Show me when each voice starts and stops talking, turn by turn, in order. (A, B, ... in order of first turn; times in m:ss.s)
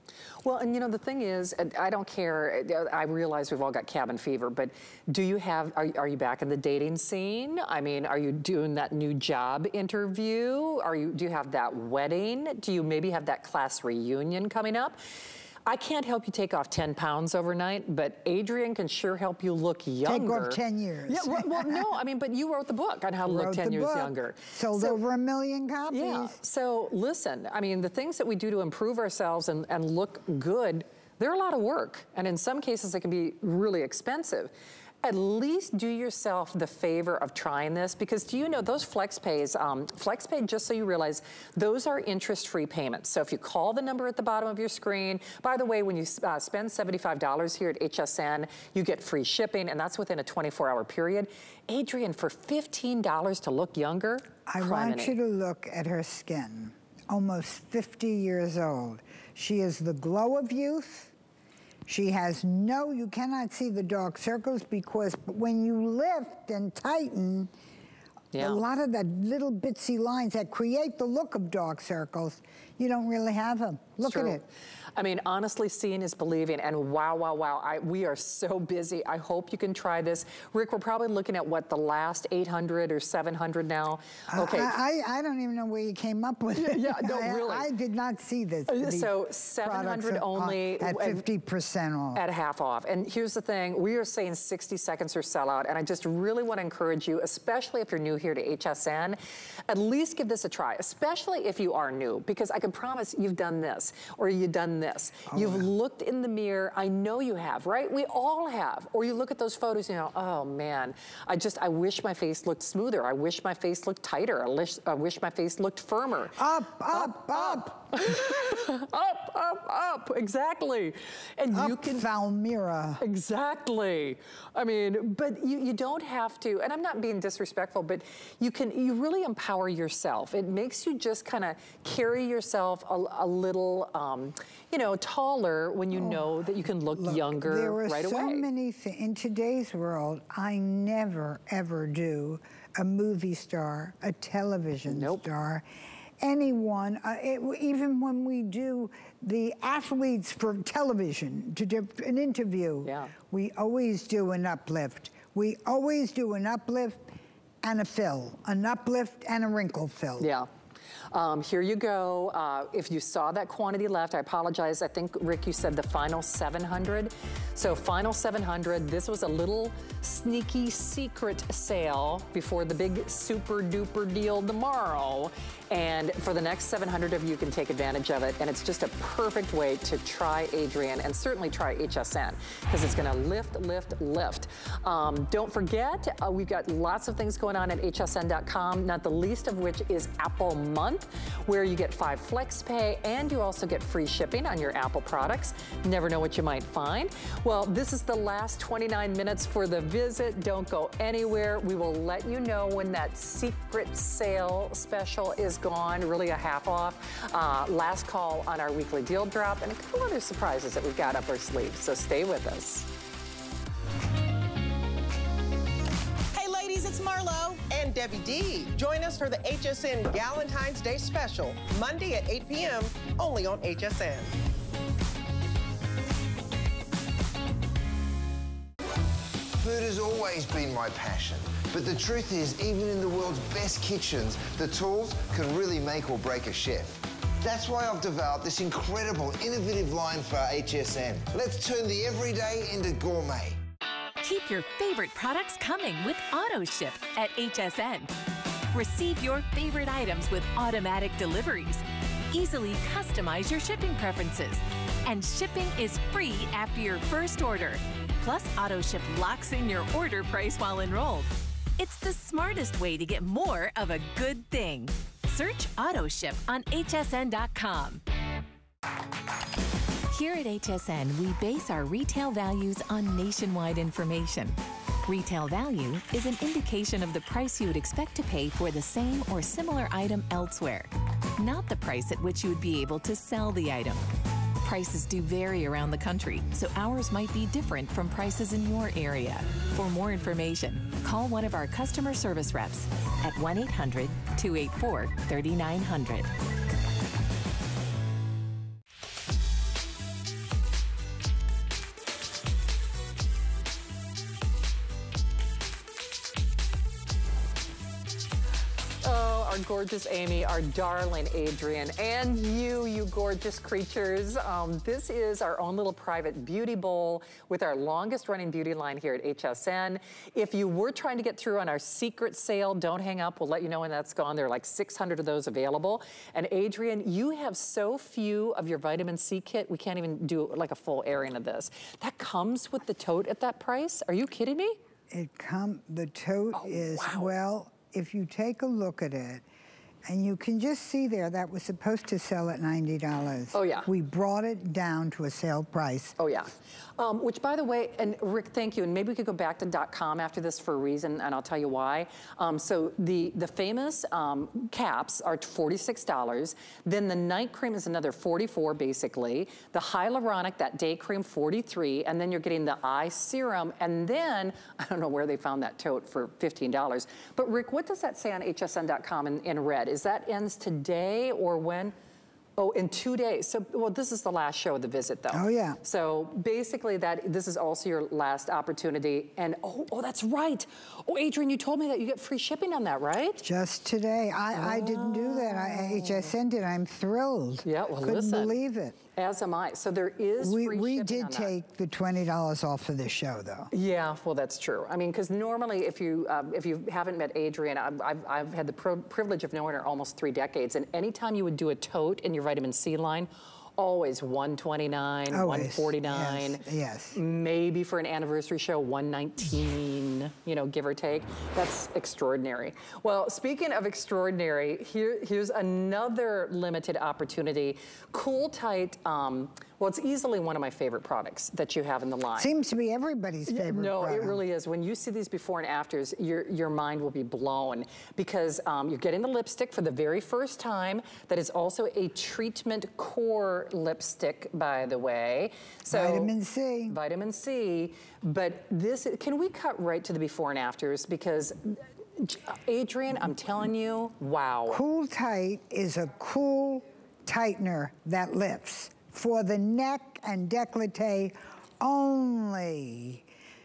0:00.4-0:15.0 A
0:15.7-0:25.0 A
0:20.0-0:21.9 B
0:23.2-0:26.4 B
0:25.9-0:34.5 A
0:35.0-0:55.2 A
0:54.5-1:01.1 B
1:01.9-1:07.5 B
1:08.3-1:08.6 A
1:08.4-1:14.4 B
1:14.0-1:14.4 A
1:15.0-1:24.8 A
1:24.3-1:32.2 B
1:26.5-1:27.7 A
1:28.7-1:31.2 A
1:32.2-1:39.2 A
1:39.7-2:02.1 A
1:45.3-1:45.7 B
1:56.4-1:57.9 B
2:01.5-2:03.0 B
2:03.0-2:18.5 A
2:15.9-2:25.6 B
2:24.9-2:25.2 A
2:26.2-2:37.0 B
2:32.8-2:33.1 A
2:37.6-2:40.3 B
2:40.2-2:40.5 A
2:41.1-3:32.9 A
3:36.3-3:44.3 C
3:49.6-4:03.6 D
4:04.2-4:08.1 E
4:08.7-4:28.0 E
4:30.1-4:44.0 E
4:44.6-4:56.3 E
5:09.0-5:34.8 A
5:35.1-5:39.4 B
5:36.5-5:37.3 A
5:40.1-5:46.2 B
5:43.5-5:43.9 A
5:46.2-6:11.9 A
6:12.6-6:23.4 A
6:15.3-6:15.8 B
6:23.4-6:29.0 B
6:24.5-6:26.3 A
6:27.6-6:28.6 A
6:29.2-6:31.5 A
6:30.4-6:33.7 B
6:33.7-7:02.5 A
6:45.3-6:47.2 B
7:02.4-7:04.4 B
7:03.5-7:16.3 A
7:15.9-7:17.0 B
7:16.9-7:24.8 A
7:24.7-7:33.2 B